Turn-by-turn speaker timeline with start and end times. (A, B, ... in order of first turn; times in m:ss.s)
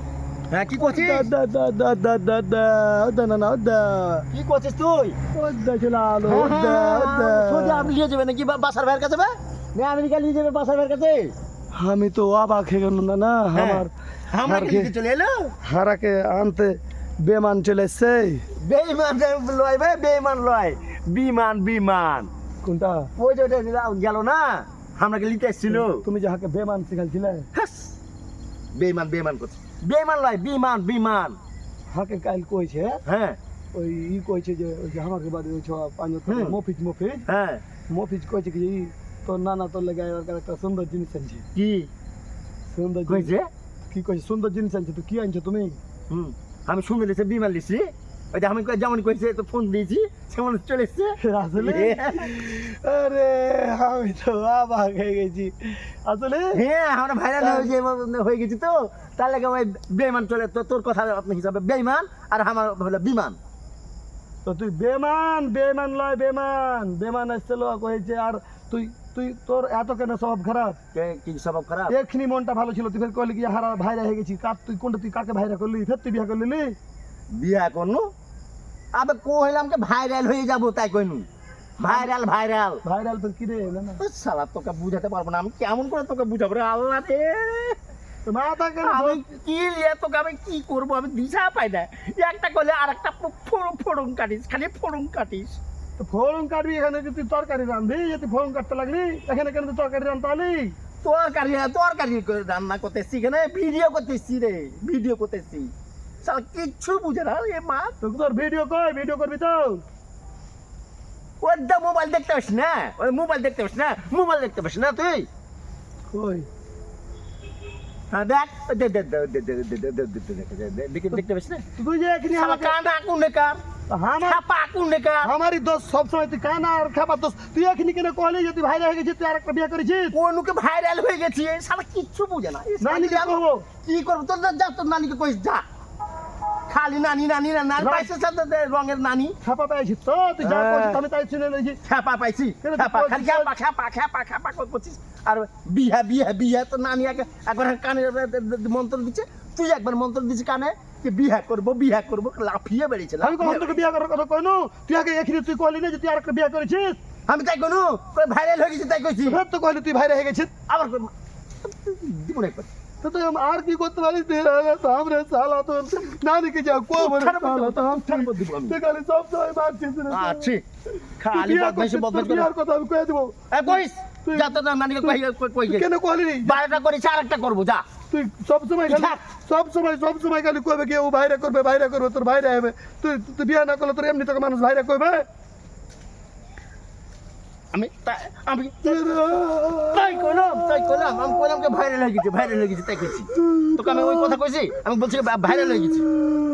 0:00.5-0:01.3 A
0:00.8-0:04.2 B
0:04.3-0:05.2 A
0:05.3-0:07.9 B
0:06.2-0:11.3 A
0:11.7-0:13.9 B
0:13.5-0:15.5 A
0:14.4-0:14.9 B
0:15.6-0:18.4 B
0:18.6-0:22.3 A
0:22.6-0:23.1 B
0:23.2-0:26.0 A
0:25.7-0:27.5 B
0:27.5-0:28.0 A
0:28.7-0:31.4 A
0:31.9-0:33.0 B
0:33.0-0:33.4 A
0:33.7-0:37.2 B
0:36.3-0:36.6 A
0:37.3-0:37.6 A
0:37.9-0:41.4 B
0:41.5-0:41.9 A
0:42.7-0:43.3 B
0:43.1-0:43.5 A
0:43.9-0:45.8 B
0:46.1-0:52.3 A
0:51.2-0:56.6 B
0:56.5-1:03.4 A
0:57.4-0:57.7 B
1:04.4-1:10.8 B
1:10.9-1:12.0 A
1:11.9-1:16.7 B
1:17.3-1:18.1 A
1:18.9-1:21.2 A
1:21.8-1:22.8 A
1:21.8-1:22.1 B
1:22.8-1:24.0 B
1:24.0-1:27.8 A
1:28.2-1:29.2 B
1:28.8-1:35.6 A
1:36.0-1:40.7 B
1:41.0-1:45.7 A
1:46.2-1:47.9 A
1:48.0-1:49.8 B
1:51.4-1:55.3 A
1:56.1-1:56.5 B
1:58.1-2:01.6 A
2:01.8-2:02.7 B
2:02.3-2:03.6 A
2:03.9-2:04.4 B
2:04.2-2:05.3 A
2:05.2-2:10.1 B
2:10.1-2:15.6 A
2:12.8-2:13.7 B
2:16.7-2:19.4 A
2:17.8-2:18.1 B
2:19.4-2:21.8 B
2:20.4-2:21.0 A
2:21.8-2:33.8 A
2:22.6-2:23.5 B
2:33.2-2:37.0 B
2:37.3-2:39.4 A
2:39.2-2:40.5 B
2:40.7-2:41.1 A
2:41.6-2:42.7 A
2:43.0-2:50.5 B
2:46.9-2:48.8 A
2:50.1-2:50.6 A
2:51.0-2:56.6 B
2:51.2-2:52.5 A
2:53.5-2:55.9 A
2:56.4-2:57.8 A
2:58.1-3:05.3 B
2:58.9-2:59.2 A
3:07.7-3:09.2 A
3:08.8-3:10.3 B
3:09.9-3:16.1 A
3:13.4-3:14.3 B